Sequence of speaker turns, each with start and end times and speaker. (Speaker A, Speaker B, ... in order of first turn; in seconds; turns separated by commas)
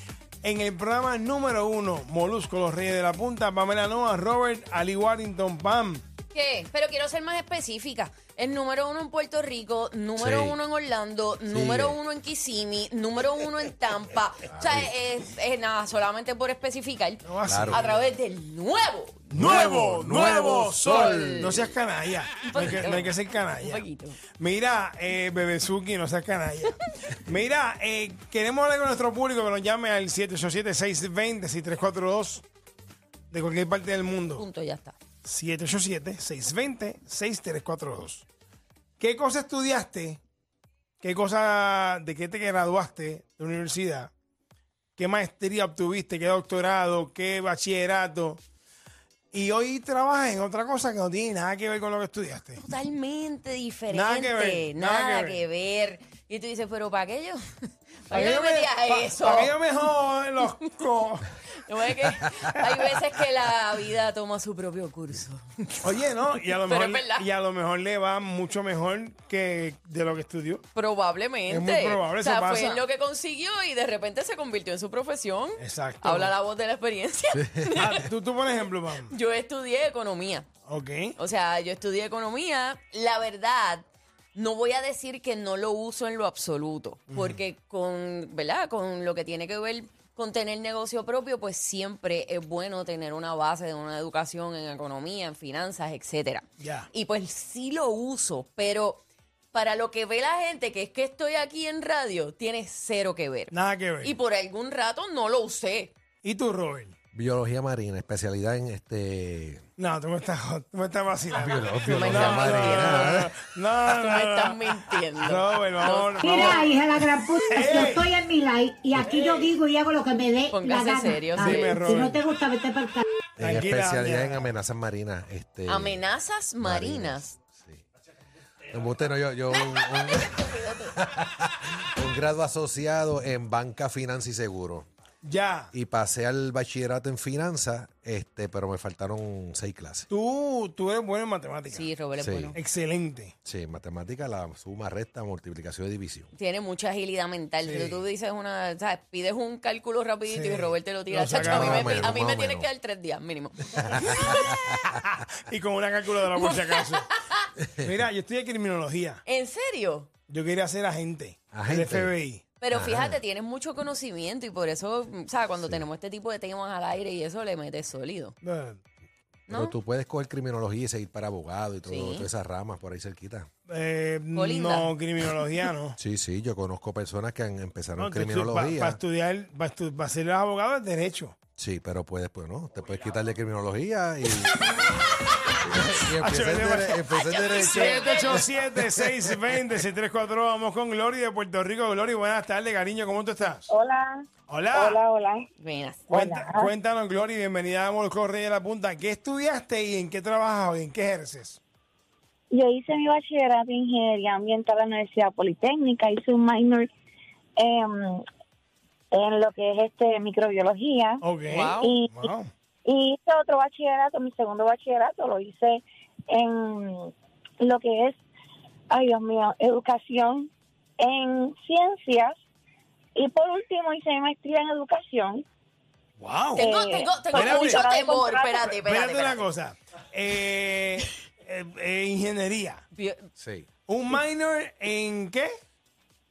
Speaker A: 0.4-6.0, Speaker B: 6.3-21.7, Speaker C: 10.2-10.6, Speaker C: 11.5-12.0, Speaker C: 14.6-14.9, Speaker A: 17.2-18.1, Speaker C: 17.5-17.8, Speaker A: 19.3-23.9, Speaker C: 19.4-21.6, Speaker B: 22.4-24.2, Speaker A: 24.4-32.4, Speaker A: 33.3-34.5, Speaker B: 34.4-35.0, Speaker A: 35.2-38.3, Speaker A: 39.0-40.2, Speaker A: 41.0-44.1, Speaker A: 45.0-48.4, Speaker A: 49.3-52.6, Speaker B: 52.6-57.4, Speaker A: 53.9-55.4, Speaker B: 58.1-59.6, Speaker A: 58.1-61.3, Speaker B: 61.7-65.4, Speaker A: 65.8-70.6, Speaker B: 66.5-67.3, Speaker B: 70.8-78.0, Speaker A: 71.5-72.8, Speaker A: 75.6-76.3, Speaker A: 77.8-79.1, Speaker B: 79.1-80.5, Speaker A: 80.7-81.2, Speaker B: 81.2-99.0, Speaker A: 87.1-87.4, Speaker A: 96.6-96.9, Speaker B: 99.5-105.9, Speaker A: 103.5-104.2, Speaker A: 106.2-107.0, Speaker C: 107.1-109.6, Speaker A: 109.8-114.6, Speaker C: 111.3-113.3, Speaker B: 111.9-113.2, Speaker B: 113.9-116.7, Speaker A: 115.2-116.8, Speaker D: 116.2-123.0, Speaker A: 117.5-118.1, Speaker B: 120.5-121.8, Speaker A: 121.4-122.2, Speaker C: 123.4-126.0, Speaker A: 123.4-124.5, Speaker B: 125.7-127.3, Speaker C: 126.6-127.8, Speaker C: 128.7-130.3, Speaker B: 129.5-130.9, Speaker C: 131.0-134.9, Speaker A: 135.2-135.7, Speaker C: 135.7-140.1, Speaker A: 140.1-141.9, Speaker B: 141.7-142.6, Speaker C: 142.2-142.6, Speaker A: 142.6-143.3, Speaker C: 143.4-146.3, Speaker B: 146.3-154.5, Speaker A: 147.7-148.0, Speaker A: 150.3-152.2, Speaker C: 151.4-152.7, Speaker C: 153.8-154.6, Speaker A: 154.3-157.1, Speaker B: 156.3-157.5, Speaker A: 157.8-159.2, Speaker B: 159.2-160.1, Speaker A: 160.3-162.4, Speaker C: 161.5-162.1, Speaker B: 162.6-168.3, Speaker C: 162.7-163.2, Speaker C: 165.6-165.9, Speaker A: 168.4-168.8, Speaker B: 169.5-169.8, Speaker C: 169.5-173.5, Speaker B: 171.9-172.3, Speaker A: 173.7-176.0, Speaker B: 174.3-174.9, Speaker C: 176.0-179.0, Speaker A: 178.0-181.4, Speaker C: 181.6-184.7, Speaker C: 185.7-189.3, Speaker A: 186.2-187.0, Speaker B: 187.1-188.5, Speaker A: 187.6-193.7, Speaker E: 193.7-195.5, Speaker A: 194.5-195.0, Speaker B: 195.6-196.0, Speaker A: 196.1-201.6, Speaker E: 196.1-196.7, Speaker E: 202.5-206.9, Speaker E: 207.6-208.2, Speaker E: 209.1-211.2, Speaker A: 211.2-212.5, Speaker B: 211.5-211.9, Speaker E: 211.8-212.3, Speaker E: 212.8-218.2, Speaker E: 218.9-222.3, Speaker E: 223.2-225.4, Speaker A: 226.2-226.7, Speaker E: 226.6-228.7, Speaker B: 226.6-229.4, Speaker A: 227.3-227.9, Speaker A: 228.6-232.8, Speaker B: 232.9-233.2, Speaker C: 233.4-233.7, Speaker A: 233.9-235.5